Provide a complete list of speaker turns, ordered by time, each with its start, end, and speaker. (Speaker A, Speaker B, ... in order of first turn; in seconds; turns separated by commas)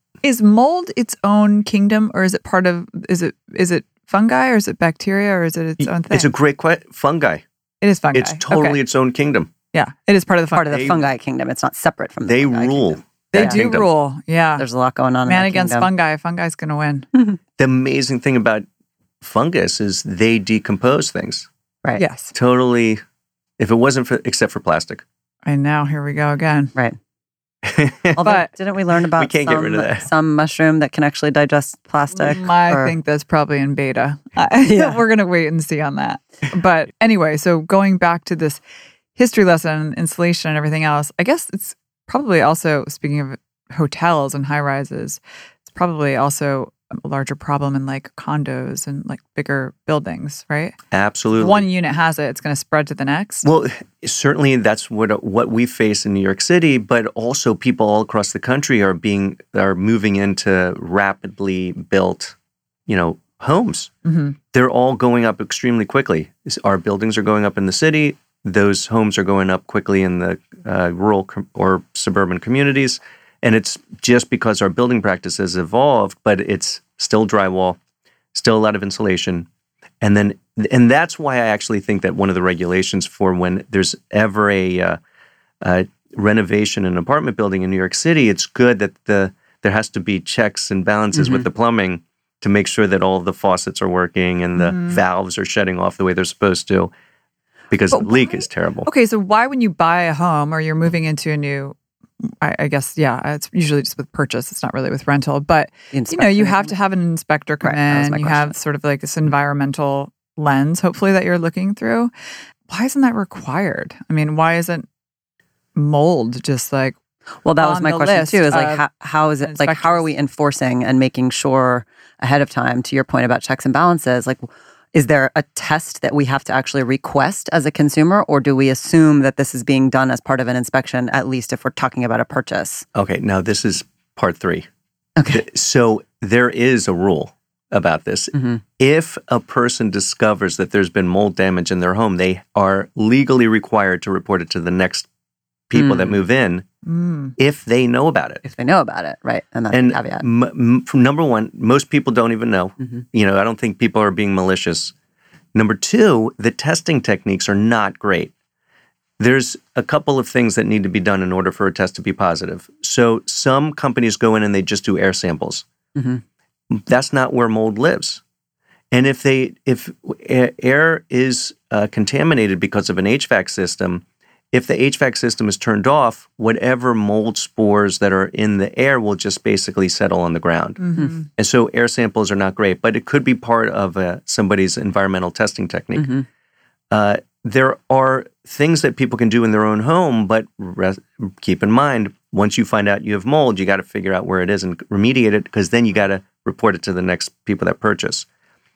Speaker A: 0.2-6.3, Speaker B: 5.8-7.4, Speaker A: 7.8-8.8, Speaker B: 8.1-9.5, Speaker A: 9.7-10.7, Speaker C: 10.5-13.6, Speaker B: 10.7-11.0, Speaker B: 12.2-13.9, Speaker A: 13.3-14.7, Speaker C: 14.6-15.9, Speaker A: 15.2-17.1, Speaker B: 17.6-18.6, Speaker B: 19.2-21.5, Speaker A: 21.9-22.3, Speaker B: 22.3-23.0, Speaker B: 23.6-25.0, Speaker A: 25.4-26.7, Speaker B: 27.6-28.2, Speaker C: 28.2-32.9, Speaker A: 28.2-28.5, Speaker B: 29.1-30.1, Speaker A: 32.1-38.6, Speaker C: 34.6-35.0, Speaker A: 39.2-50.8, Speaker B: 50.9-51.7, Speaker A: 51.4-53.5, Speaker B: 53.4-62.3, Speaker B: 62.9-63.9, Speaker A: 64.0-64.3, Speaker B: 64.5-77.8, Speaker B: 78.3-79.5, Speaker B: 80.0-85.0, Speaker B: 85.6-96.9, Speaker C: 91.1-91.4, Speaker A: 94.6-95.0, Speaker B: 97.7-98.9, Speaker A: 97.9-112.1, Speaker C: 105.9-106.7, Speaker C: 107.6-108.5, Speaker A: 112.7-114.8, Speaker A: 115.8-117.0, Speaker C: 117.4-132.8, Speaker A: 117.6-118.8, Speaker A: 119.4-120.0, Speaker B: 132.9-134.7, Speaker C: 135.2-135.4, Speaker B: 135.3-145.1, Speaker C: 138.3-138.6, Speaker B: 145.7-146.7, Speaker C: 145.7-146.2, Speaker A: 146.8-147.3, Speaker B: 147.4-148.4, Speaker C: 148.4-150.2, Speaker B: 149.7-154.9, Speaker B: 155.5-158.3, Speaker B: 159.2-165.6, Speaker C: 165.9-166.2, Speaker B: 166.7-168.2, Speaker B: 168.9-186.2, Speaker A: 180.8-181.2, Speaker C: 186.0-186.2, Speaker B: 186.9-198.2